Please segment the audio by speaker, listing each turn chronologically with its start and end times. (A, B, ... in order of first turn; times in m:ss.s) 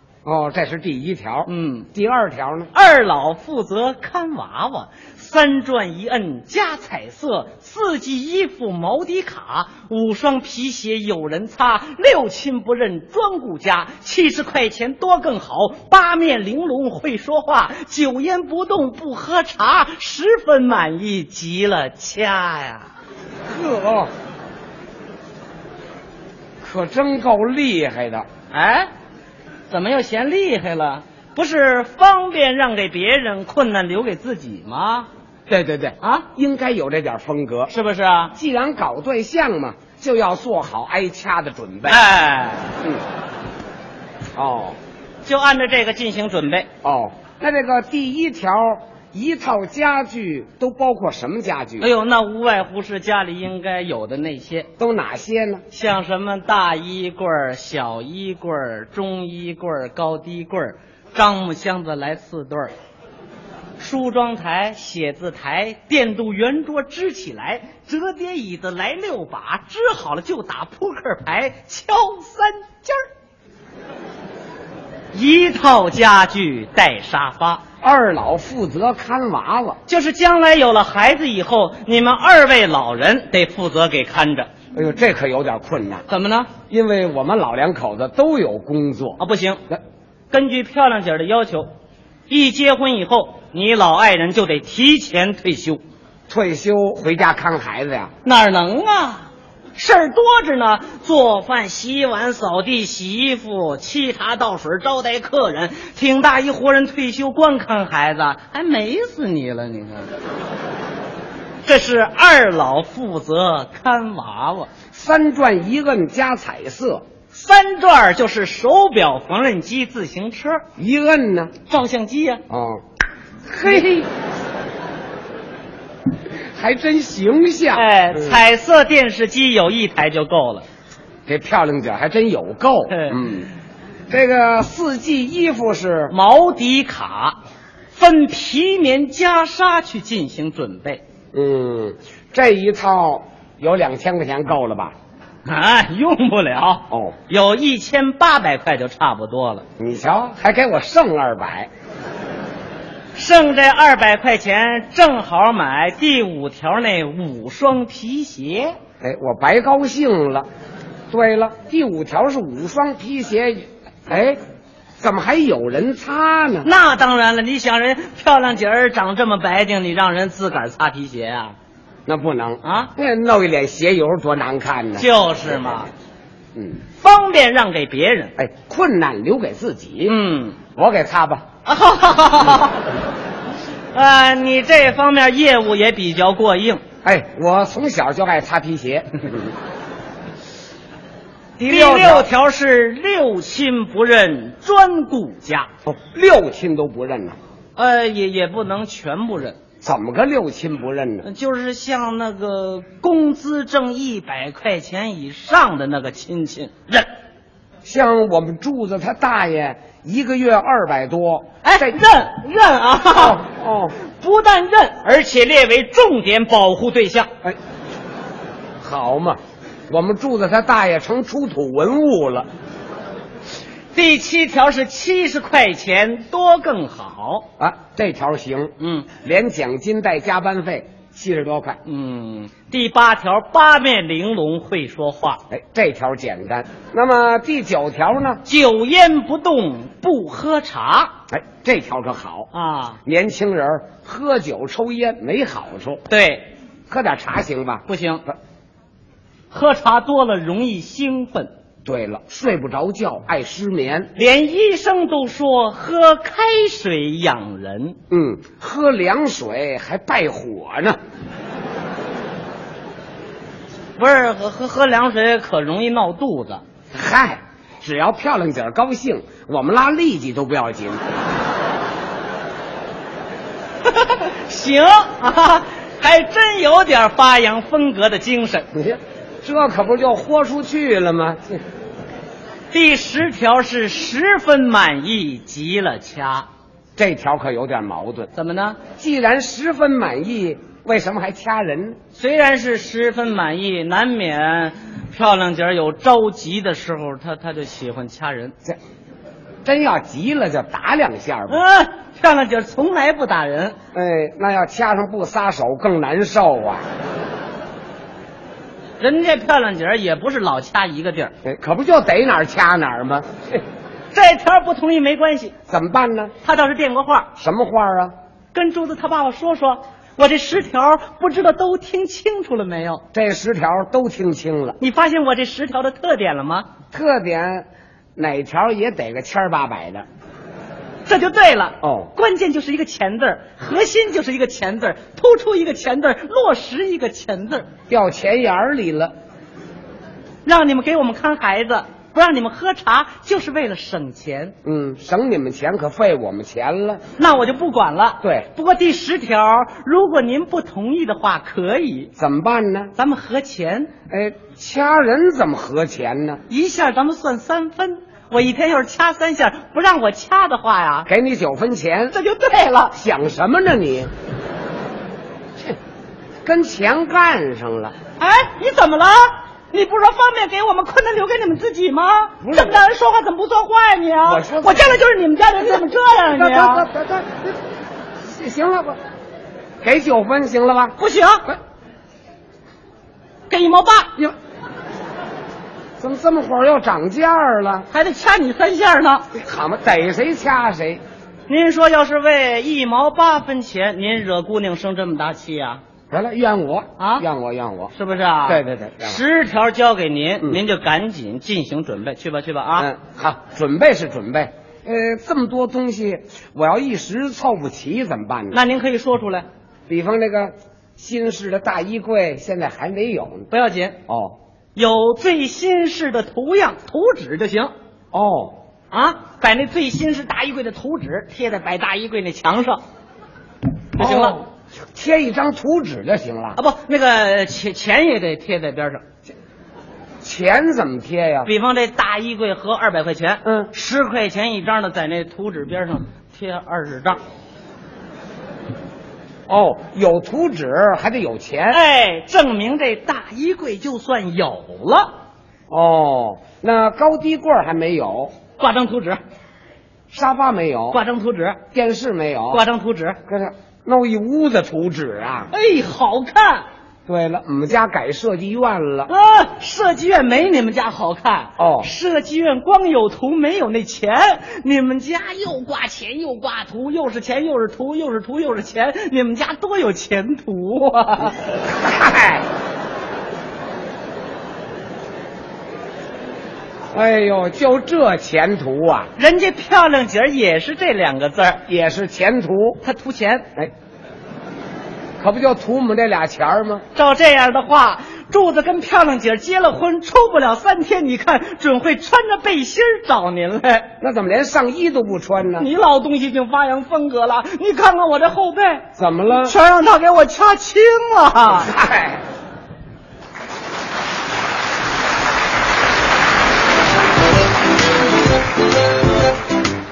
0:00.2-0:02.7 A
0:01.4-0:01.9 B
0:02.7-0:22.9 B
0:23.5-0:24.1 A
0:26.6-0:28.2 A
0:28.5-0:28.9 B
0:29.7-0:35.1 B
0:35.5-0:37.7 A
0:36.0-0:36.2 B
0:37.7-0:38.3 B
0:38.3-0:42.0 A
0:41.9-0:42.7 B
0:44.3-0:44.8 A
0:45.2-0:46.7 B
0:46.8-0:51.9 A
0:51.8-0:54.7 B
0:54.8-0:55.6 A
0:55.7-1:02.7 B
1:03.8-1:13.0 B
1:15.1-1:17.6 B
1:17.8-1:19.8 A
1:19.9-1:24.5 B
1:24.7-1:26.0 A
1:26.1-1:26.5 B
1:26.7-1:29.8 A
1:29.2-1:29.6 B
1:30.3-1:31.7 B
1:32.3-1:35.8 B
1:36.3-1:38.1 A
1:38.2-1:50.1 B
1:51.6-1:54.7 B
1:54.9-1:57.0 A
1:57.3-2:00.6 B
2:00.8-2:01.5 A
2:01.6-2:02.4 B
2:02.5-2:02.8 A
2:03.4-2:04.1 A
2:06.6-2:08.4 A
2:07.7-2:10.6 B
2:11.2-2:13.5 A
2:12.9-2:13.2 B
2:14.1-2:16.1 A
2:16.1-2:17.4 B
2:17.9-2:21.0 B
2:21.3-2:24.9 A
2:25.4-2:29.6 B
2:26.9-2:27.1 A
2:29.8-2:31.7 A
2:33.1-2:38.7 B
2:39.0-2:40.4 A
2:41.1-2:44.4 A
2:45.0-2:46.7 A
2:46.6-2:51.6 B
2:52.1-2:55.0 A
2:52.6-2:52.9 B
2:55.0-2:55.9 B
2:56.9-2:58.3 B
2:58.4-3:00.1 A
3:00.0-3:00.6 B
3:00.7-3:01.4 A
3:01.6-3:02.9 B
3:03.9-3:06.8 B
3:07.0-3:09.5 A
3:11.6-3:12.3 A
3:11.7-3:15.7 B
3:15.8-3:17.4 A
3:17.8-3:19.6 B
3:19.8-3:21.3 A
3:21.2-3:27.1 B
3:27.8-3:31.9 A
3:31.6-3:33.4 B
3:33.1-3:33.9 A
3:34.1-3:37.3 B
3:38.8-3:42.5 A
3:43.9-3:47.4 B
3:47.6-3:51.8 A
3:48.8-3:49.1 B
3:51.8-3:55.4 B
3:55.5-3:58.4 A
3:58.4-4:01.1 B
4:01.3-4:02.5 A
4:02.5-4:03.0 B
4:03.0-4:06.0 A
4:06.1-4:06.5 B
4:06.9-4:08.3 A
4:07.9-4:08.2 B
4:09.5-4:11.5 B
4:11.8-4:14.1 A
4:14.1-4:18.0 B
4:18.1-4:21.0 A
4:24.0-4:26.6 B
4:26.9-4:31.0 A
4:33.8-4:38.7 B
4:38.7-4:41.6 A
4:42.7-4:46.5 B
4:47.0-4:48.3 A
4:48.3-4:48.8 B
4:49.0-4:52.0 A
4:52.1-4:58.5 B
4:59.6-5:01.6 A
5:01.5-5:03.8 B
5:03.9-5:06.8 A
5:09.0-5:11.3 B
5:11.4-5:13.6 A
5:14.1-5:15.5 B
5:15.7-5:16.3 A
5:16.4-5:17.3 B
5:17.4-5:18.1 A
5:18.5-5:23.0 B
5:23.1-5:24.8 A
5:24.8-5:26.7 B
5:26.9-5:30.0 A
5:31.0-5:37.7 B
5:31.8-5:32.1 A
5:37.9-5:39.1 A
5:40.4-5:44.5 B
5:44.6-5:47.0 A
5:47.2-5:52.1 B
5:48.2-5:48.5 A
5:52.2-5:52.9 A
5:52.9-5:53.9 B
5:54.1-5:56.4 A
5:56.5-6:01.1 B
6:01.1-6:02.1 A
6:02.1-6:02.9 B
6:02.9-6:04.1 A
6:06.4-6:07.9 A
6:08.2-6:16.9 B
6:12.4-6:12.8 A
6:14.2-6:15.0 A
6:16.3-6:17.6 A
6:18.2-6:19.0 A
6:19.8-6:21.0 A
6:21.0-6:21.4 B
6:23.5-6:24.2 B
6:26.0-6:27.9 A
6:27.9-6:29.2 B
6:29.3-6:31.0 A
6:31.5-6:35.8 B
6:36.1-6:37.9 A
6:37.0-6:37.3 B
6:37.9-6:42.9 B
6:38.5-6:39.2 A
6:42.8-6:48.6 A
6:48.5-6:49.5 B
6:49.9-6:53.5 A
6:53.5-6:54.0 B
6:54.1-6:54.4 A
6:54.7-6:57.7 B
6:58.1-6:58.6 A
6:58.9-7:02.8 B
7:03.9-7:04.4 B
7:04.0-7:06.6 A
7:06.6-7:09.0 B
7:10.2-7:11.5 A
7:11.4-7:17.2 B
7:13.4-7:13.7 A
7:19.5-7:21.8 A
7:21.7-7:25.1 B
7:25.7-7:28.3 A
7:28.6-7:29.2 B
7:30.1-7:31.0 A
7:30.9-7:31.6 B
7:31.7-7:32.6 A
7:32.5-7:33.2 B
7:33.3-7:35.5 A
7:35.5-7:36.6 B
7:37.1-7:39.1 A
7:39.1-7:51.3 B
7:41.6-7:41.9 A
7:51.7-7:52.4 A
7:56.9-7:59.1 A
7:59.2-8:01.6 B
8:01.7-8:02.8 A
8:02.8-8:03.5 B
8:05.2-8:06.8 A
8:06.9-8:13.9 B
8:14.0-8:15.7 A
8:15.6-8:21.7 B
8:19.0-8:19.5 A
8:21.4-8:22.2 A